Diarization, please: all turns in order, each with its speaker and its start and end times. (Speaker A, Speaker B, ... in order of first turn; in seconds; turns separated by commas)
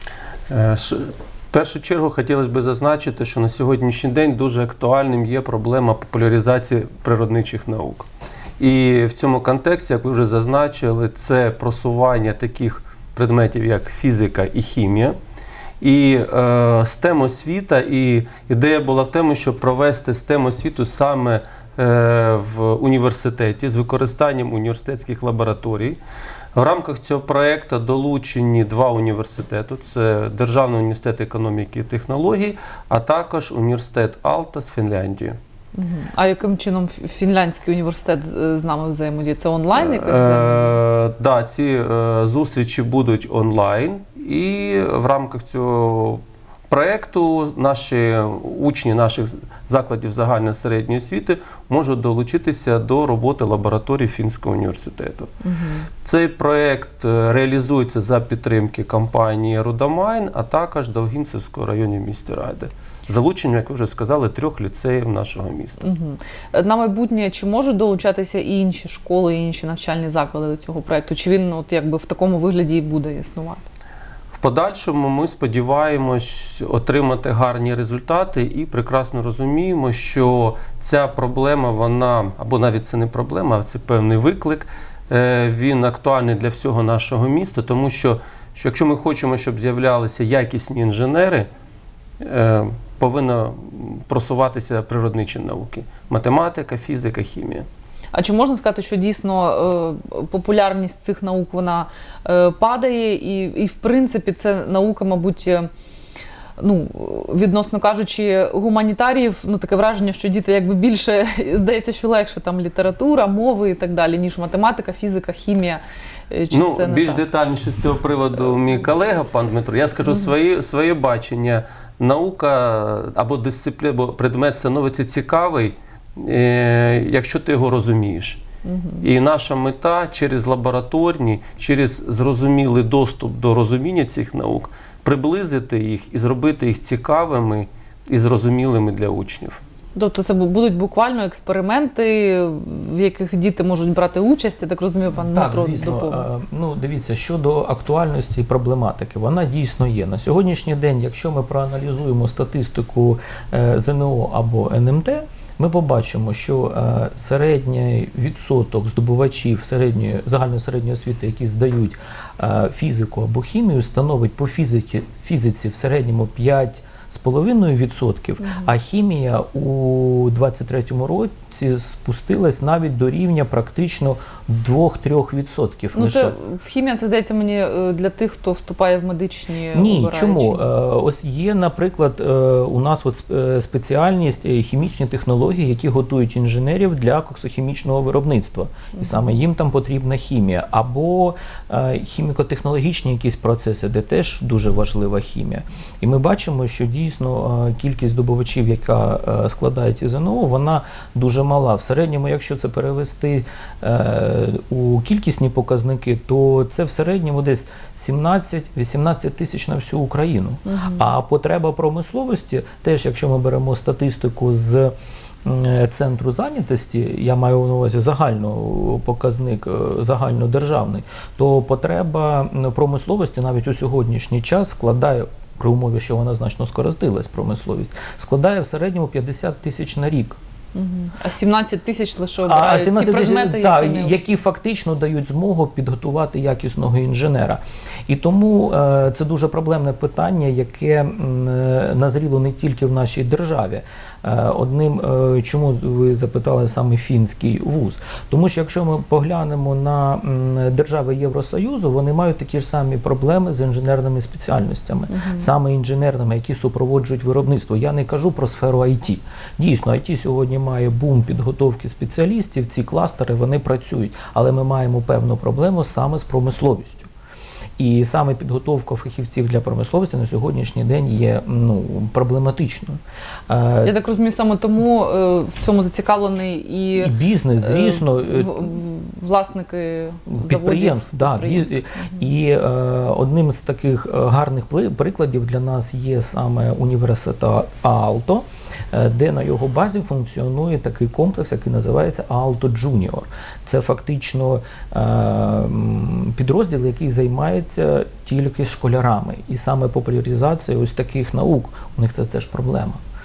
Speaker A: 0.5-8.1, Speaker A: 8.6-15.2, Speaker A: 15.8-26.0, Speaker A: 26.5-35.4, Speaker B: 35.7-40.8, Speaker A: 39.8-55.3, Speaker B: 55.4-55.9, Speaker A: 56.0-65.8, Speaker B: 65.8-73.7, Speaker A: 74.3-91.5, Speaker A: 92.2-97.7, Speaker B: 98.1-105.7, Speaker B: 106.6-117.2, Speaker A: 116.5-128.4, Speaker B: 128.6-129.1, Speaker A: 129.0-139.6, Speaker B: 139.9-146.3, Speaker C: 145.1-176.3, Speaker B: 168.4-168.7, Speaker B: 175.9-180.6, Speaker C: 179.7-214.9, Speaker B: 188.9-189.3, Speaker B: 210.7-211.0, Speaker C: 215.4-230.4, Speaker B: 230.7-234.2, Speaker C: 232.4-267.1, Speaker B: 255.1-255.5, Speaker C: 267.8-273.9, Speaker B: 273.8-282.2, Speaker C: 276.9-278.7, Speaker C: 280.3-303.0